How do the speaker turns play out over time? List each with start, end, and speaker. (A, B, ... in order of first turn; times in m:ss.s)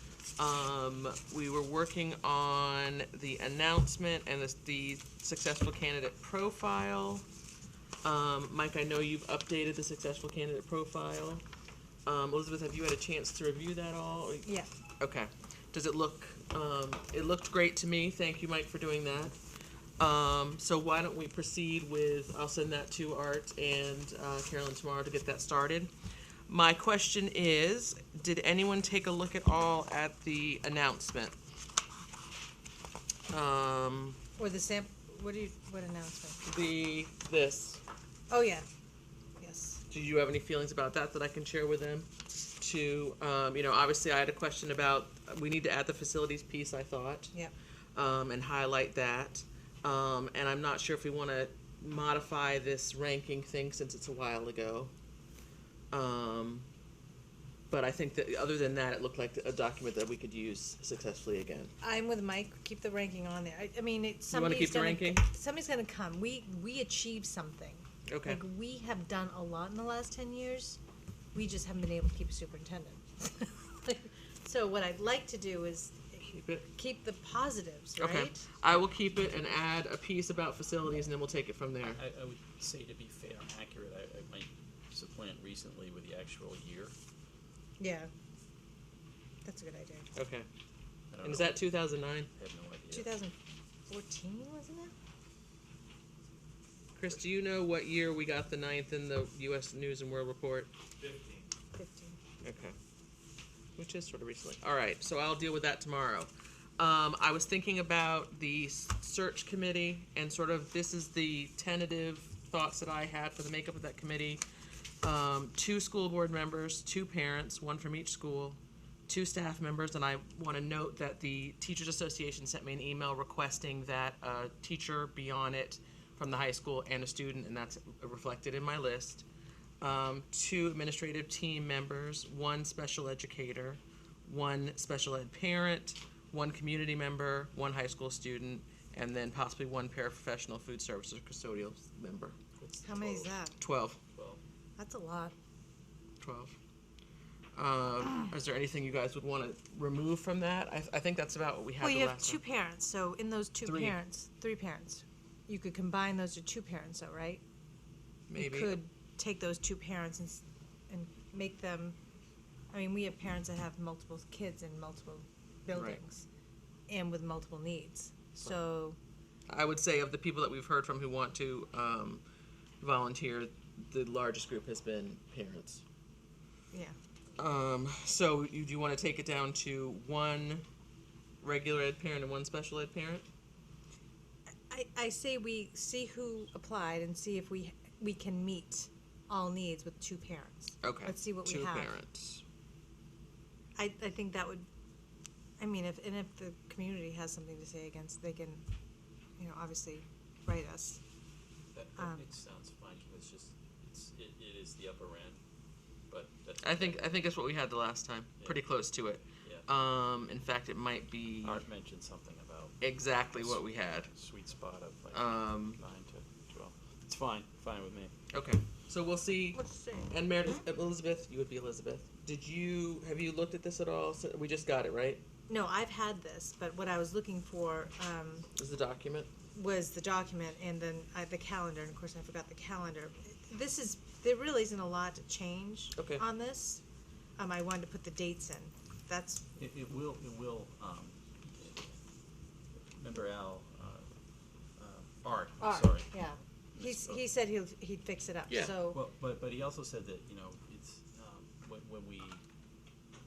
0:00.4-0:07.2 A
0:08.0-0:11.4 A
0:12.0-0:14.5 A
0:15.0-0:19.4 A
0:20.0-0:25.9 A
0:26.5-0:31.4 A
0:33.3-0:34.2 A
0:34.4-0:36.4 B
0:36.4-0:37.8 A
0:38.3-0:38.6 B
0:39.4-0:39.8 B
0:39.9-0:47.3 A
0:47.9-0:54.9 A
0:55.9-0:56.7 A
0:57.7-1:01.7 A
1:01.8-1:10.8 B
1:04.3-1:05.2 A
1:08.1-1:08.4 A
1:11.3-1:18.4 B
1:16.2-1:16.6 A
1:18.0-1:22.0 A
1:21.8-1:26.9 C
1:27.8-1:28.1 B
1:29.4-1:30.1 B
1:30.1-1:30.5 A
1:31.1-1:31.6 C
1:31.2-1:32.3 A
1:32.3-1:33.2 C
1:32.9-1:33.3 B
1:33.9-1:34.9 B
1:37.0-1:40.7 A
1:41.0-1:41.5 C
1:41.7-1:42.2 B
1:42.4-1:42.8 A
1:43.8-1:54.4 A
1:55.0-2:09.2 A
2:09.8-2:22.4 A
2:22.6-2:23.4 C
2:22.8-2:23.6 B
2:23.6-2:24.0 A
2:24.1-2:24.4 C
2:24.8-2:25.3 B
2:26.2-2:26.6 A
2:27.6-2:32.4 A
2:31.8-2:37.4 B
2:33.6-2:34.0 A
2:38.3-2:38.8 A
2:38.4-2:42.0 B
2:42.7-2:46.2 B
2:45.7-2:46.0 A
2:46.9-2:49.0 B
2:49.5-2:52.2 A
2:52.8-2:55.8 A
2:56.7-2:57.0 B
2:57.4-3:00.6 A
3:01.4-3:03.3 A
3:04.7-3:11.9 B
3:10.8-3:12.4 A
3:13.8-3:14.6 B
3:15.6-3:18.6 B
3:19.4-3:21.0 B
3:21.7-3:25.4 C
3:26.1-3:27.1 C
3:26.6-3:31.6 A
3:31.4-3:32.8 C
3:32.8-3:34.1 A
3:33.3-3:38.1 C
3:35.1-3:35.8 A
3:38.3-3:45.2 A
3:39.5-3:40.1 B
3:45.5-3:48.5 B
3:48.5-3:49.3 A
3:49.5-3:56.8 B
3:56.0-3:56.2 A
3:57.4-3:59.4 B
3:59.6-4:01.9 C
4:02.8-4:04.0 C
4:04.8-4:06.2 C
4:05.6-4:09.0 B
4:06.7-4:07.2 C
4:08.6-4:12.4 C